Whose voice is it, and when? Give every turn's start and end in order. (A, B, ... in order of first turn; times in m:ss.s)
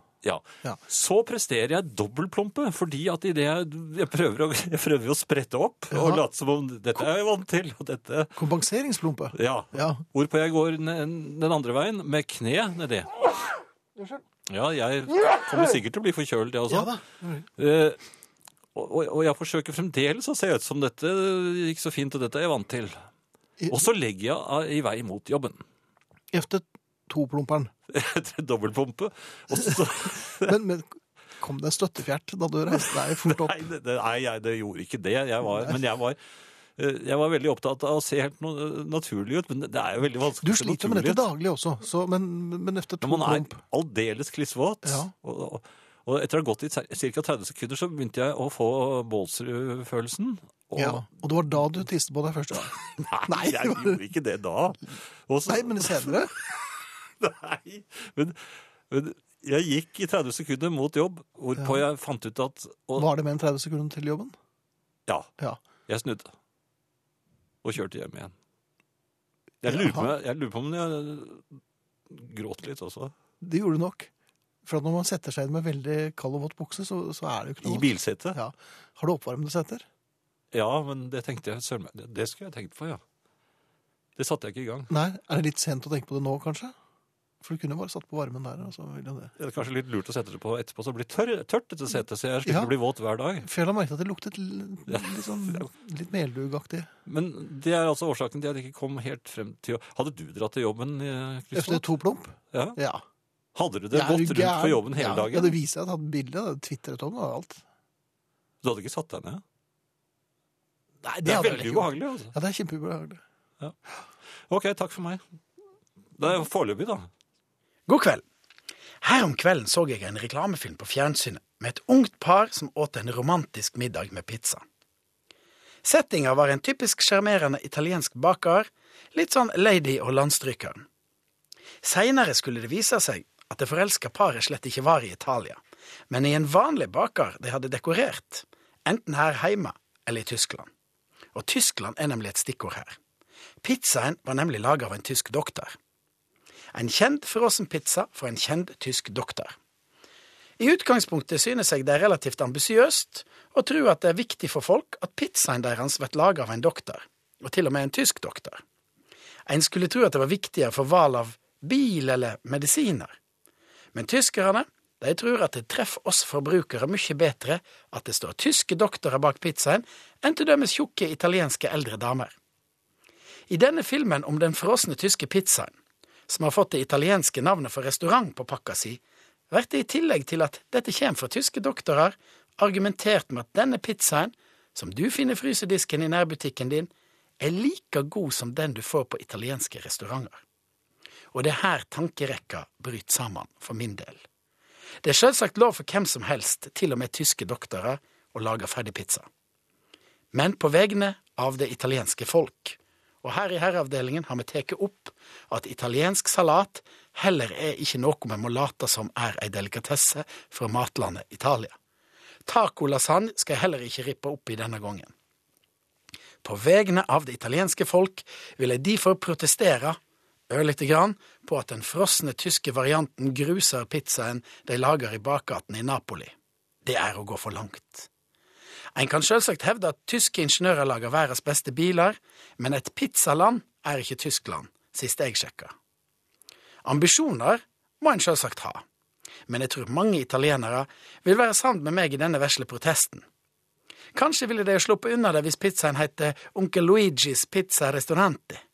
0:00.2-0:08.4 A
0:05.9-0:06.2 B
0:08.4-0:10.0 B
0:09.3-0:13.2 A
0:14.5-0:16.9 A
0:16.7-0:17.5 B
0:17.6-0:18.0 A
0:18.7-0:23.0 A
0:23.6-0:23.9 B
0:23.7-0:25.6 A
0:26.3-0:27.7 B
0:27.9-0:30.6 A
0:30.3-0:33.7 B
0:32.8-0:36.2 A
0:35.5-0:35.8 B
0:36.8-0:41.2 A
0:40.4-0:43.6 B
0:43.0-0:51.1 A
0:44.8-0:45.1 B
0:50.8-0:54.0 B
0:53.0-1:03.1 A
0:55.5-0:56.4 B
1:03.0-1:04.3 B
1:05.9-1:06.3 A
1:07.6-1:08.3 A
1:09.6-1:11.6 A
1:09.7-1:10.1 B
1:12.1-1:13.1 A
1:13.4-1:14.1 B
1:14.6-1:19.8 B
1:17.6-1:18.4 A
1:20.5-1:23.0 A
1:24.2-1:24.9 A
1:24.9-1:26.7 B
1:27.4-1:29.3 B
1:29.4-1:33.5 A
1:32.4-1:32.7 B
1:33.4-1:36.9 B
1:34.9-1:35.7 A
1:37.0-1:41.9 A
1:41.5-1:43.0 B
1:42.5-1:42.8 A
1:43.6-1:45.6 A
1:43.9-1:47.6 B
1:48.6-1:49.4 A
1:51.0-1:53.2 B
1:51.2-1:52.3 A
1:54.5-1:55.2 A
1:56.2-1:57.1 A
1:57.9-1:58.2 C
1:59.0-2:04.6 C
2:05.8-2:10.9 C
2:11.8-2:20.7 C
2:21.3-2:23.0 C
2:23.6-2:25.8 C
2:26.7-2:29.5 C
2:30.6-2:38.6 C
2:39.5-2:43.1 C
2:43.9-2:52.4 C
2:53.5-2:55.7 C
2:56.3-2:59.0 C
2:59.5-3:10.4 C
3:11.3-3:14.2 C
3:15.0-3:19.3 C
3:20.3-3:31.8 C
3:32.5-3:35.1 C
3:36.4-3:40.0 C
3:40.5-3:48.1 C
3:48.9-3:55.7 C
3:56.8-3:58.8 C
3:59.5-4:03.3 C
4:04.2-4:08.6 C